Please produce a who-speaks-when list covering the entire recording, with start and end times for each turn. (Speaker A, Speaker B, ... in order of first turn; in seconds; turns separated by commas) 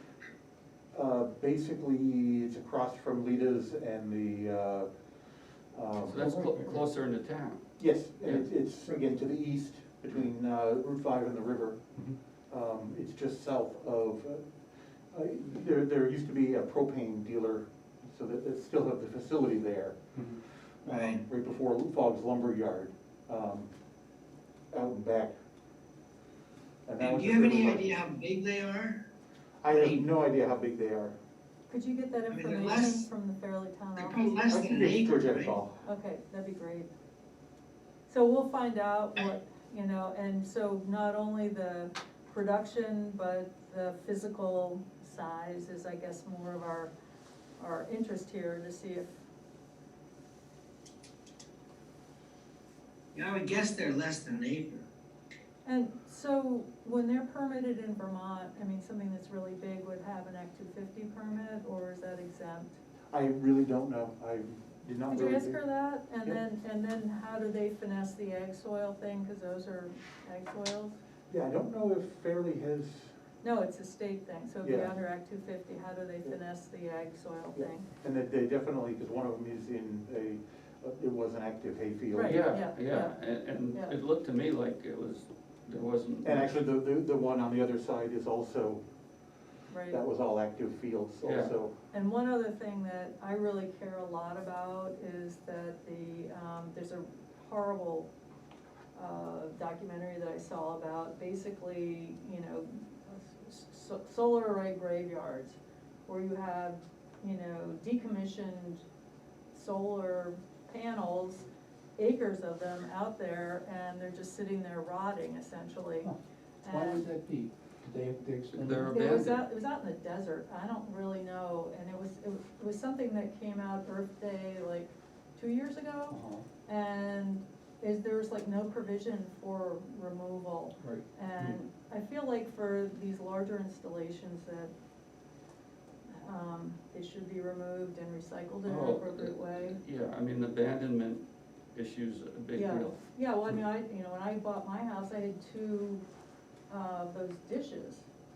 Speaker A: 0.9-4.9, Speaker A: 5.7-6.7, Speaker B: 6.0-7.6, Speaker C: 6.3-6.8, Speaker A: 7.8-11.8, Speaker A: 12.5-14.4, Speaker A: 15.1-20.1, Speaker A: 20.8-23.7, Speaker D: 20.9-21.2, Speaker A: 24.7-25.3, Speaker A: 26.9-28.0, Speaker D: 27.0-29.1, Speaker A: 29.6-31.1, Speaker D: 29.7-30.1, Speaker E: 31.7-34.6, Speaker D: 32.3-33.1, Speaker D: 34.0-35.6, Speaker A: 34.5-35.8, Speaker E: 35.9-36.9, Speaker E: 38.1-46.9, Speaker E: 47.6-49.1, Speaker D: 53.1-54.9, Speaker E: 55.6-62.8, Speaker A: 63.1-65.6, Speaker E: 65.1-71.0, Speaker A: 71.3-73.1, Speaker E: 73.4-77.9, Speaker A: 74.6-74.9, Speaker A: 77.5-82.5, Speaker E: 82.1-83.2, Speaker B: 82.2-86.6, Speaker A: 86.2-88.8, Speaker E: 89.7-90.0, Speaker A: 89.9-91.7, Speaker B: 91.2-91.6, Speaker E: 91.9-98.1, Speaker E: 98.9-108.8, Speaker E: 109.5-116.1, Speaker C: 116.0-119.0, Speaker E: 116.6-117.1, Speaker B: 118.5-119.4, Speaker E: 118.9-134.7, Speaker C: 126.1-126.5, Speaker C: 130.8-131.6, Speaker E: 136.1-139.8, Speaker B: 138.7-141.2, Speaker B: 141.7-143.0, Speaker E: 142.5-146.0, Speaker E: 146.7-148.1